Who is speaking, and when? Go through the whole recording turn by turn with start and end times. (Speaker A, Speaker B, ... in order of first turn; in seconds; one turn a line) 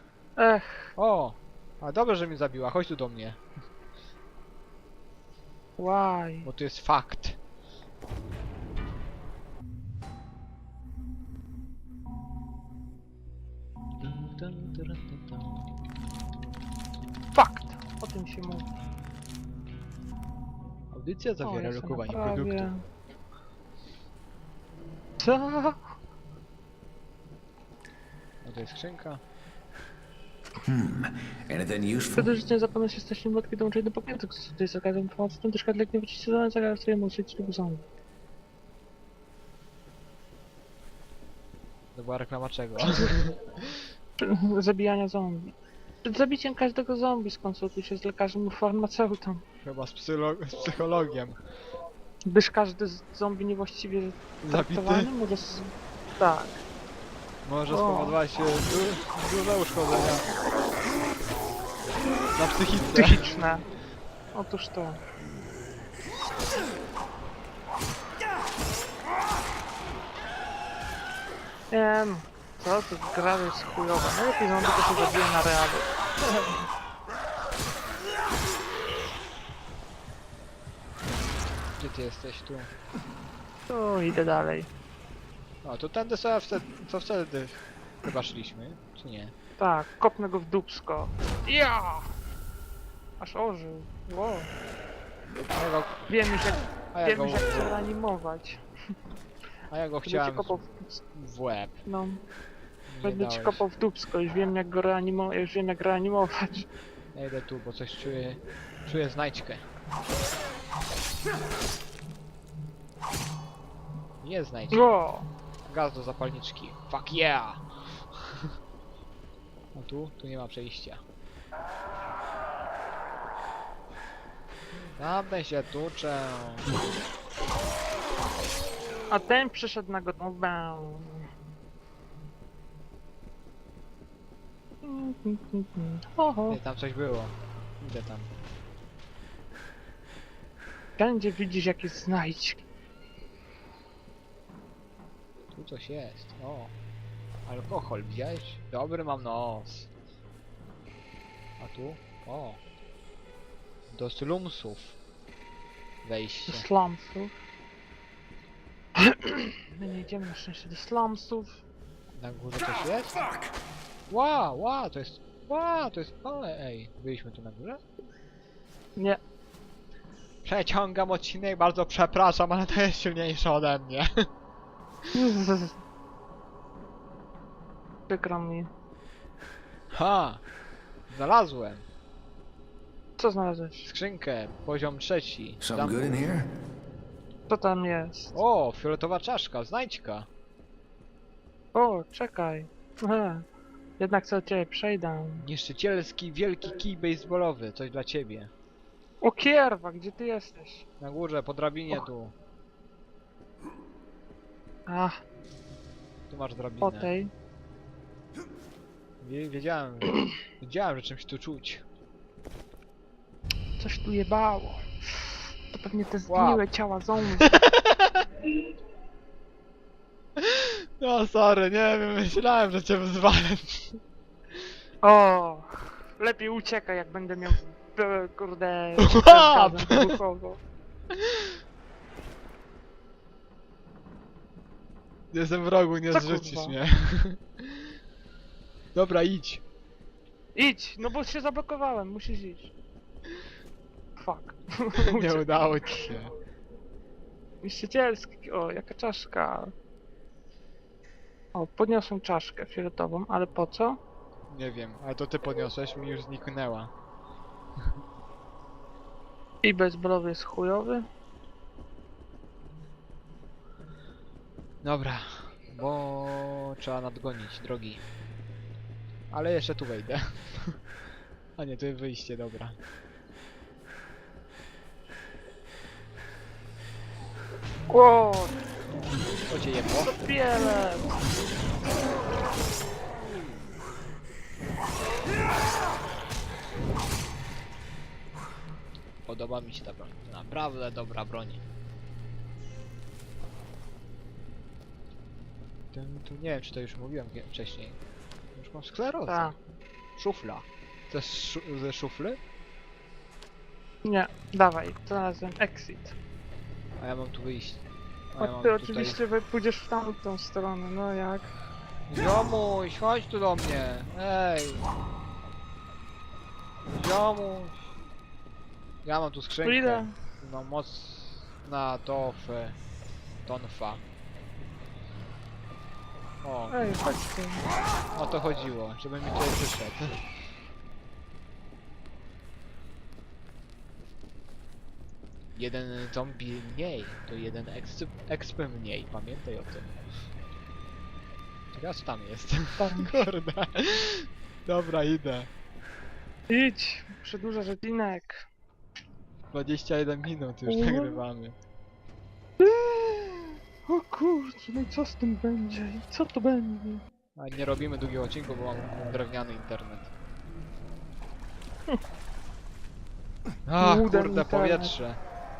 Speaker A: 0.4-0.9
Speaker B: 1.0-3.4
Speaker A: 5.8-6.5
Speaker B: 6.5-7.4
Speaker B: 14.0-15.7
Speaker A: 17.4-18.7
Speaker B: 20.9-22.7
Speaker A: 21.4-22.8
Speaker A: 25.2-25.8
Speaker B: 28.4-29.2
Speaker C: 30.6-32.3
Speaker A: 32.1-37.8
Speaker B: 41.9-43.8
Speaker A: 44.2-49.4
Speaker B: 49.6-51.4
Speaker A: 52.3-56.6
Speaker B: 54.4-55.1
Speaker B: 57.4-60.2
Speaker A: 57.7-58.2
Speaker B: 62.3-63.4
Speaker A: 62.9-63.6
Speaker A: 64.3-65.0
Speaker A: 71.7-76.6
Speaker B: 81.7-82.7
Speaker A: 83.7-84.7
Speaker B: 85.6-89.3
Speaker A: 89.6-92.1
Speaker A: 93.2-94.5
Speaker B: 95.5-96.0
Speaker A: 96.1-98.6
Speaker B: 96.9-97.7
Speaker B: 99.7-100.5
Speaker A: 100.1-101.0
Speaker B: 101.1-101.8
Speaker A: 101.9-102.2
Speaker B: 102.9-103.6
Speaker A: 103.0-106.7
Speaker B: 107.1-109.7
Speaker B: 114.2-114.9
Speaker A: 114.7-115.3
Speaker B: 115.7-118.5
Speaker B: 119.7-121.0
Speaker B: 124.8-126.7
Speaker A: 129.1-131.3
Speaker A: 134.8-136.6
Speaker B: 136.5-138.3
Speaker A: 141.0-142.6
Speaker B: 145.5-146.7
Speaker B: 147.5-149.9
Speaker B: 151.6-152.6
Speaker B: 153.9-155.0
Speaker B: 156.0-156.7
Speaker A: 156.5-157.3
Speaker A: 159.0-161.6
Speaker B: 162.1-163.2
Speaker B: 164.1-167.8
Speaker B: 170.4-174.3
Speaker A: 175.1-175.8
Speaker A: 178.1-178.7
Speaker B: 179.9-180.4
Speaker B: 181.1-181.8
Speaker A: 183.2-183.9
Speaker B: 183.8-186.3
Speaker C: 185.6-186.5
Speaker A: 187.5-188.4
Speaker B: 188.3-190.3
Speaker A: 191.7-193.5
Speaker A: 194.0-195.4
Speaker B: 195.4-198.5
Speaker A: 199.2-200.8
Speaker B: 201.0-202.3
Speaker A: 204.9-205.2
Speaker B: 206.3-207.1
Speaker A: 206.8-207.3
Speaker B: 209.2-211.8
Speaker A: 213.8-217.6
Speaker B: 216.3-216.6
Speaker B: 217.4-218.3
Speaker B: 220.4-224.0
Speaker A: 225.0-230.6
Speaker B: 229.0-230.2
Speaker B: 231.1-231.6
Speaker B: 235.3-238.0
Speaker A: 236.1-236.8
Speaker B: 238.9-239.6
Speaker A: 240.6-242.7
Speaker A: 244.2-245.6
Speaker B: 245.0-246.3
Speaker A: 247.6-249.7
Speaker A: 251.5-254.0
Speaker B: 254.5-256.9
Speaker A: 259.6-261.1
Speaker B: 264.8-268.0
Speaker B: 269.3-270.8
Speaker B: 271.6-272.8
Speaker A: 277.9-278.6
Speaker B: 279.5-280.1
Speaker A: 280.0-281.2
Speaker B: 289.2-291.6
Speaker B: 295.9-298.0
Speaker B: 298.6-299.5
Speaker A: 299.3-299.6
Speaker B: 300.2-302.4
Speaker A: 304.1-306.2
Speaker B: 307.0-309.2
Speaker A: 308.4-311.5
Speaker B: 312.1-314.9
Speaker B: 316.9-317.9
Speaker B: 319.0-322.8
Speaker A: 319.6-320.1
Speaker B: 323.5-324.0
Speaker B: 326.4-326.8
Speaker A: 326.7-327.6
Speaker B: 328.1-330.2
Speaker B: 335.5-340.1
Speaker B: 341.7-345.5
Speaker A: 342.8-343.3
Speaker A: 346.5-348.4
Speaker B: 349.5-351.6
Speaker A: 350.7-351.2
Speaker A: 352.6-357.0
Speaker B: 357.4-360.1
Speaker B: 363.7-365.2
Speaker A: 363.8-364.9